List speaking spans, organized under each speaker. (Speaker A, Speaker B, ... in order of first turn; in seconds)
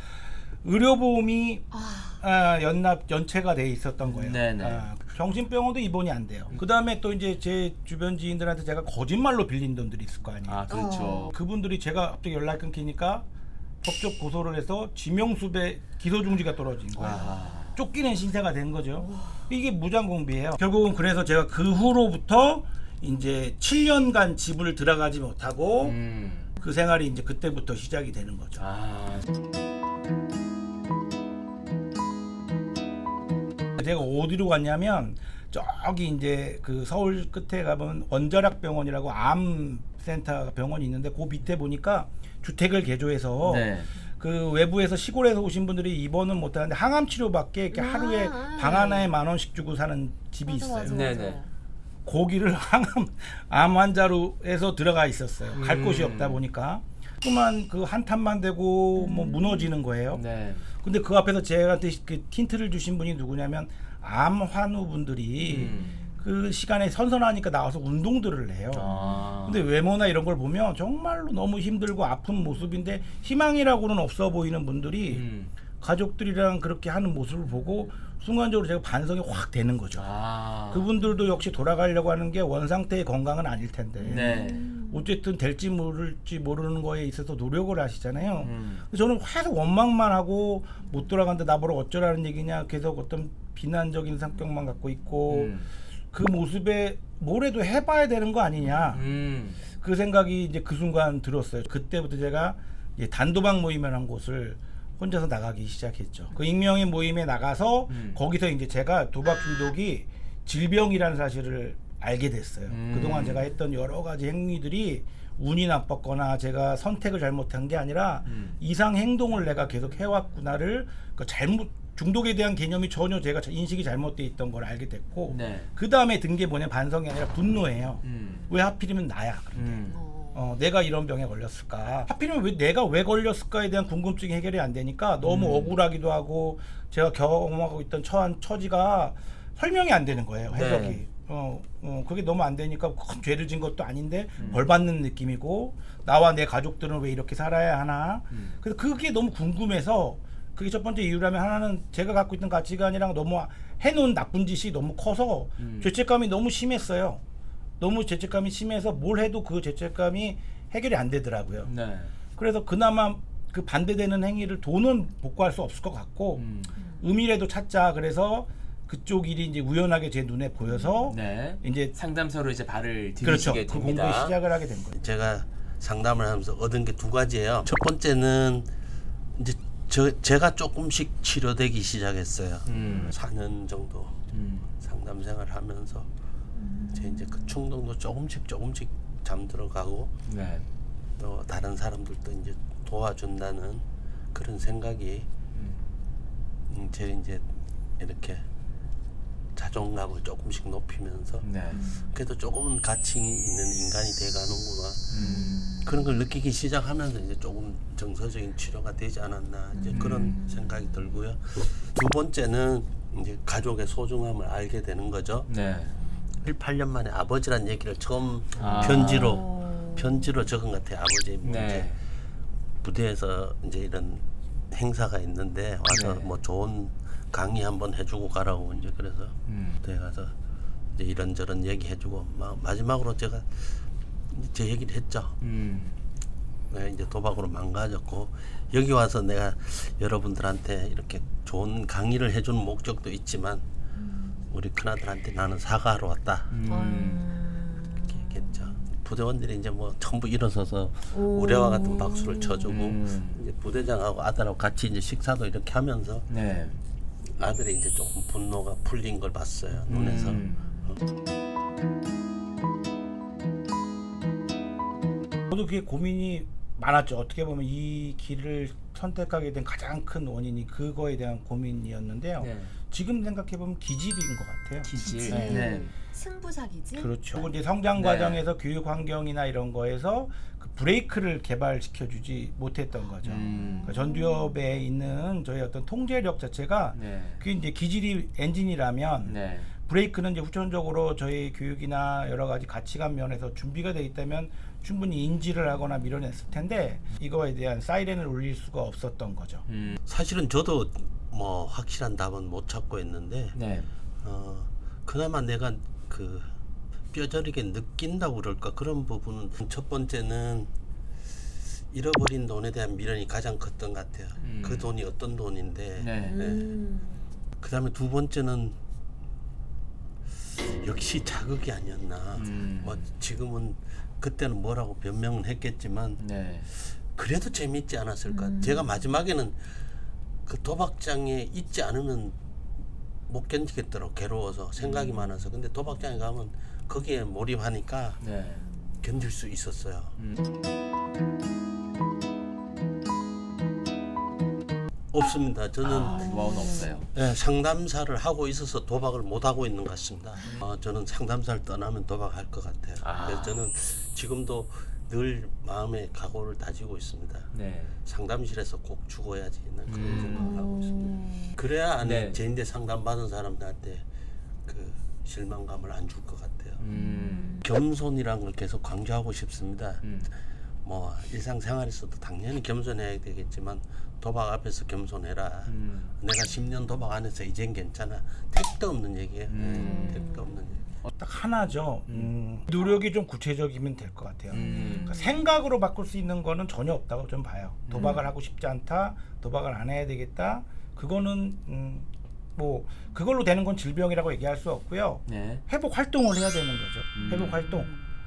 Speaker A: 0.6-1.7, 2.2-10.6, 11.3-13.2, 13.8-26.0, 26.6-28.6, 33.8-51.1, 52.0-60.2, 60.8-68.9, 69.4-75.2, 75.8-80.1, 80.7-95.5, 96.1-99.1, 99.8-157.2, 157.8-161.7, 162.3-166.4, 167.0-171.9, 173.2-175.0, 265.5-275.8, 277.0-299.6, 381.2-397.9
Speaker B: 1.7-2.2, 10.7-11.3, 19.1-19.4, 47.7-49.1, 50.5-51.5, 59.0-59.6, 65.7-66.1, 84.1-85.0, 129.9-130.4, 186.6-187.3, 201.7-202.1, 205.2-206.1, 209.8-210.6, 218.7-220.2, 244.1-244.4, 246.6-248.7, 251.1-252.6, 275.0-277.2, 283.5-284.4, 316.2-317.2, 328.3-329.0, 346.1-346.9, 360.3-361.5, 366.9-367.6, 379.7-380.5, 384.6-385.4, 388.0-388.2, 397.7-398.1
Speaker C: 4.1-4.9, 10.5-11.3, 16.9-17.8, 25.8-26.5, 28.6-29.2, 43.4-43.9, 50.9-51.4, 55.5-56.4, 60.1-60.7, 65.5-66.0, 68.7-69.6, 75.1-75.5, 80.0-80.9, 84.0-84.7, 88.4-88.8, 95.3-95.7, 98.9-99.6, 107.9-108.2, 112.7-113.4, 118.2-118.6, 125.3-125.7, 128.0-128.5, 129.5-130.0, 135.2-135.8, 140.5-141.0, 144.4-144.6, 148.3-148.6, 155.6-155.9, 161.6-162.1, 166.3-166.7, 171.1-174.3, 182.6-183.1, 184.3-184.7, 190.2-190.7, 195.5-195.9, 201.4-201.8, 205.1-205.6, 209.9-210.4, 215.5-216.0, 218.6-219.4, 221.4-222.0, 225.9-226.3, 229.5-229.8, 235.4-236.0, 246.5-247.3, 252.6-253.4, 256.3-256.8, 259.9-260.7, 272.4-272.7, 274.8-275.9, 277.9-278.4, 283.2-283.9, 286.9-287.4, 289.2-289.7, 299.7-300.0, 303.5-303.9, 314.4-314.9, 316.0-316.4, 322.4-323.0, 326.2-326.7, 338.2-338.6, 345.8-347.1, 353.0-353.6, 357.5-358.0, 359.9-360.5, 362.0-362.4, 366.8-367.6, 370.0-370.3, 375.7-376.1, 379.5-380.3, 384.5-385.2, 387.9-388.2, 395.3-395.6, 397.1-397.7
Speaker D: 174.9-178.7, 179.3-184.2, 184.8-186.1, 186.9-190.1, 191.2-195.3, 196.7-197.4, 198.0-198.4, 199.5-205.1, 205.8-215.5, 216.4-221.9, 222.8-230.3, 230.9-235.4, 236.7-243.6, 244.5-246.5, 248.1-256.3, 257.2-260.9, 300.1-303.6, 304.2-306.5, 307.1-310.7, 311.9-316.8, 317.6-318.8, 320.4-329.8, 330.4-332.4, 333.3-338.2, 339.0-340.2, 345.1-346.4, 347.1-357.5, 358.0-364.1, 364.6-366.8, 367.6-370.1, 370.8-380.8